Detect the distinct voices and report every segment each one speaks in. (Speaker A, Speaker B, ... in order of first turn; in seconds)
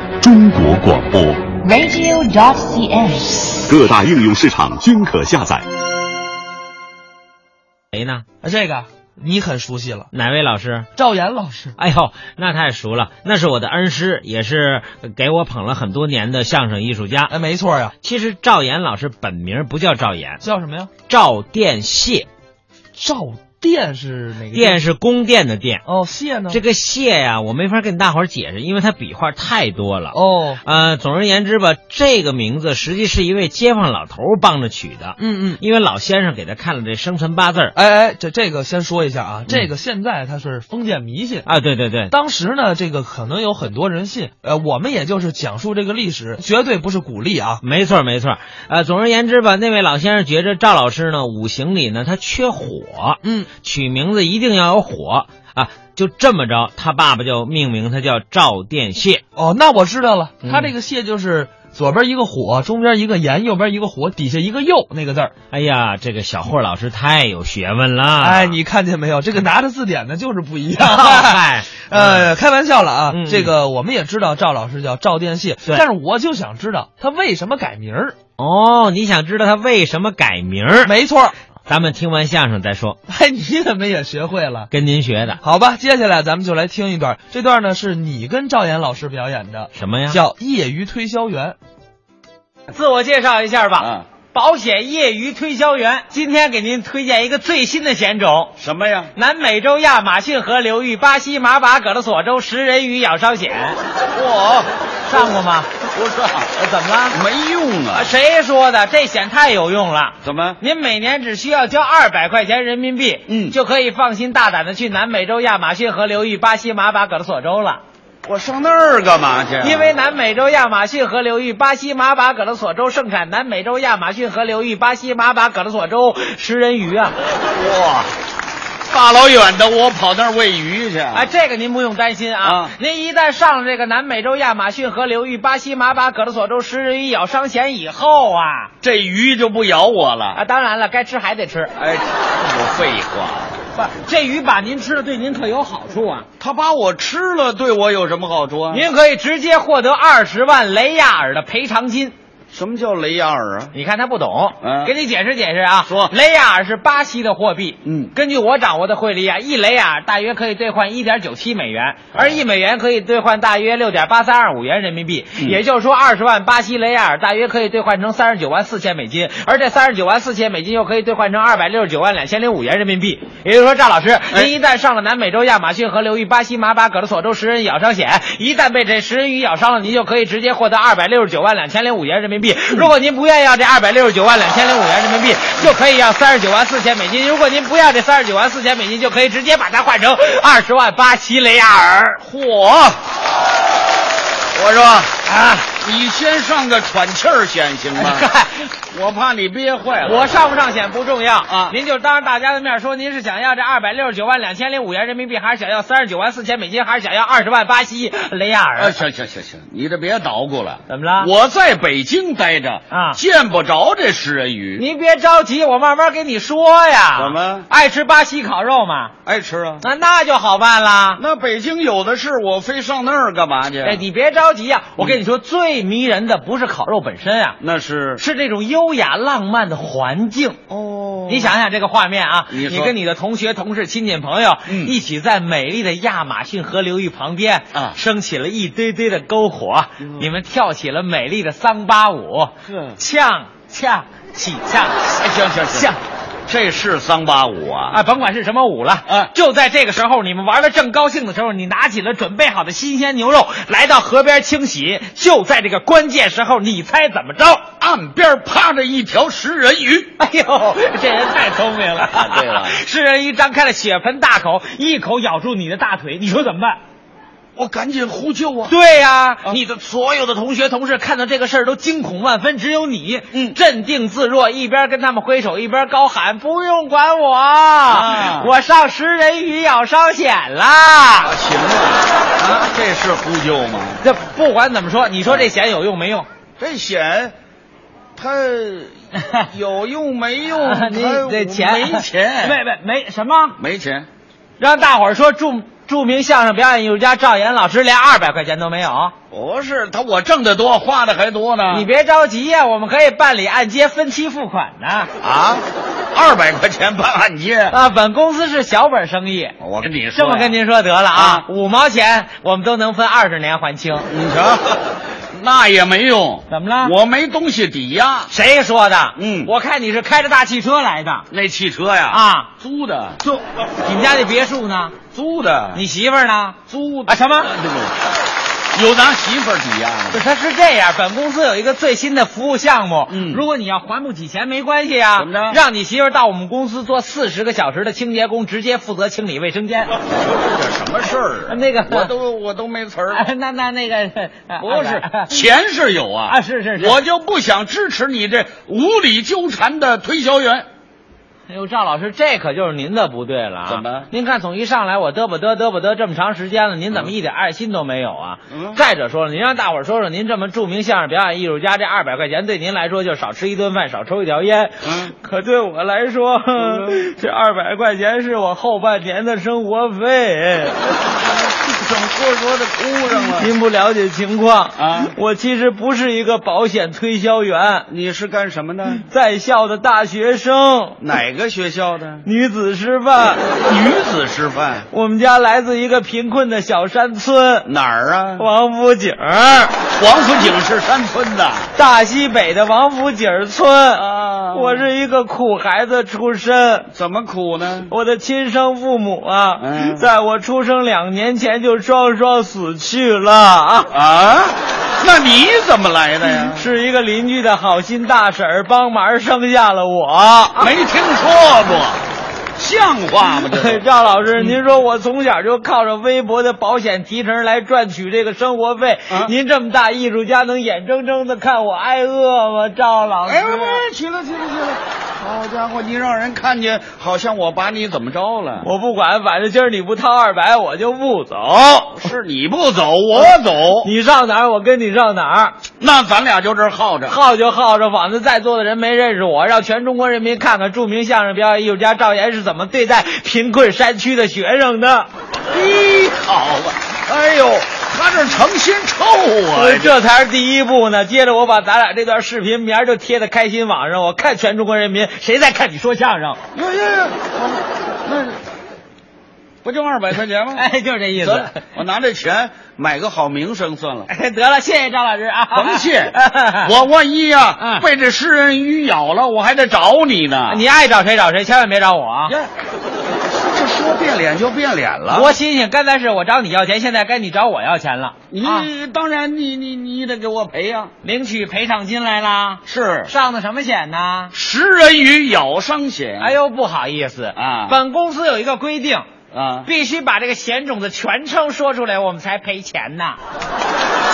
Speaker A: 0.2-1.5, 3.7-5.7
Speaker B: 1.6-3.6
Speaker C: 7.9-8.2, 10.1-10.9, 11.8-17.3, 18.0-20.4, 21.1-22.3, 24.5-25.8, 26.5-37.7, 41.5-42.1, 47.6-59.2, 60.4-60.7, 65.5-68.6, 70.8-72.3, 73.1-73.5, 78.4-80.9, 81.7-83.0, 84.7-85.4, 89.8-90.2, 92.7-98.5, 99.2-103.8, 105.1-105.7, 106.5-107.2, 107.9-117.8, 119.6-127.2, 131.1-138.7, 140.3-141.7, 143.7-146.3, 148.7-152.1, 153.7-192.2, 195.2-195.7, 197.9-198.7, 200.0-209.0, 210.9-211.3, 212.9-213.2, 214.8-219.1, 219.8-221.2, 223.8-227.6, 228.2-230.6, 231.3-245.2, 245.7-246.0, 247.9-257.6, 260.2-266.8, 268.7-281.4, 284.0-286.3, 290.5-293.6, 294.6-299.1, 301.7-305.1, 307.7-314.1, 316.5-316.9, 318.3-321.3, 322.1-322.5, 323.2-325.0, 325.7-327.5, 330.1-339.9, 341.5-342.1, 343.1-345.3, 346.3-347.0, 351.5-370.9, 373.1-377.9, 378.9-381.0, 382.2-383.5, 384.9-387.7, 388.4-389.8, 391.8-396.9, 397.9-403.9, 406.5-410.7, 413.3-423.9, 428.6-432.0, 433.8-435.6, 437.1-445.1, 449.5-456.4, 460.5-461.6, 464.1-466.7, 467.6-467.9, 470.5-472.4, 475.1-478.7, 481.0-484.3, 486.2-489.1, 489.6-493.2
Speaker D: 8.4-10.1, 11.0-11.8, 17.3-17.9, 20.4-20.9, 23.0-24.8, 25.9-26.6, 30.1-30.6, 35.2-35.6, 37.7-41.5, 42.1-47.6, 53.2-53.5, 59.4-65.3, 68.2-78.2, 80.8-81.3, 83.1-84.7, 85.4-91.6
Speaker E: 93.8-94.0, 98.6-99.1, 104.1-105.3, 105.9-106.6, 107.1-108.1, 110.2-110.6, 113.3-113.6, 118.2-119.9, 127.5-128.1, 128.9-131.3, 132.4-132.7, 138.8-140.4, 141.8-143.6, 146.4-148.9, 152.5-153.7, 154.6-154.9, 155.9-156.1, 157.8-158.1, 162.1-162.4, 192.2-193.0, 194.5-195.2, 195.7-198.3, 198.9-200.3, 201.5-201.8, 208.8-214.8, 217.1-217.7, 219.2-219.8, 221.2-224.0, 227.6-228.2, 230.7-231.6, 232.5-233.0, 234.7-235.0, 240.0-240.3, 242.6-243.0, 245.0-245.9, 246.5-248.0, 249.1-249.3, 257.8-260.1, 262.1-262.8, 267.6-268.7, 273.3-273.6, 277.9-278.5, 281.2-284.0, 285.2-285.5, 286.6-287.4, 288.2-292.6, 293.6-294.1, 299.3-301.9, 305.2-307.8, 309.6-310.6, 311.1-311.5, 314.1-318.3, 319.2-319.5, 321.3-323.2, 325.1-325.9, 326.7-328.0, 328.7-330.2, 333.1-333.4, 335.2-335.6, 340.3-343.3, 344.6-350.7, 353.7-354.1, 358.5-358.8, 364.8-365.1, 366.6-367.0, 371.4-373.5, 374.8-375.1, 377.9-379.0, 381.0-382.3, 383.6-384.9, 387.6-388.5, 390.0-391.7, 393.9-394.9, 396.9-397.9, 399.6-400.1, 403.9-406.7, 410.6-412.0, 412.6-413.8, 423.2-428.7, 431.9-433.9, 435.8-437.2, 445.5-449.9, 456.5-458.4, 459.6-464.1, 465.5-470.6, 473.4-475.4, 478.3-480.9, 482.6-483.1, 484.3-486.4, 487.4-487.8, 489.3-489.7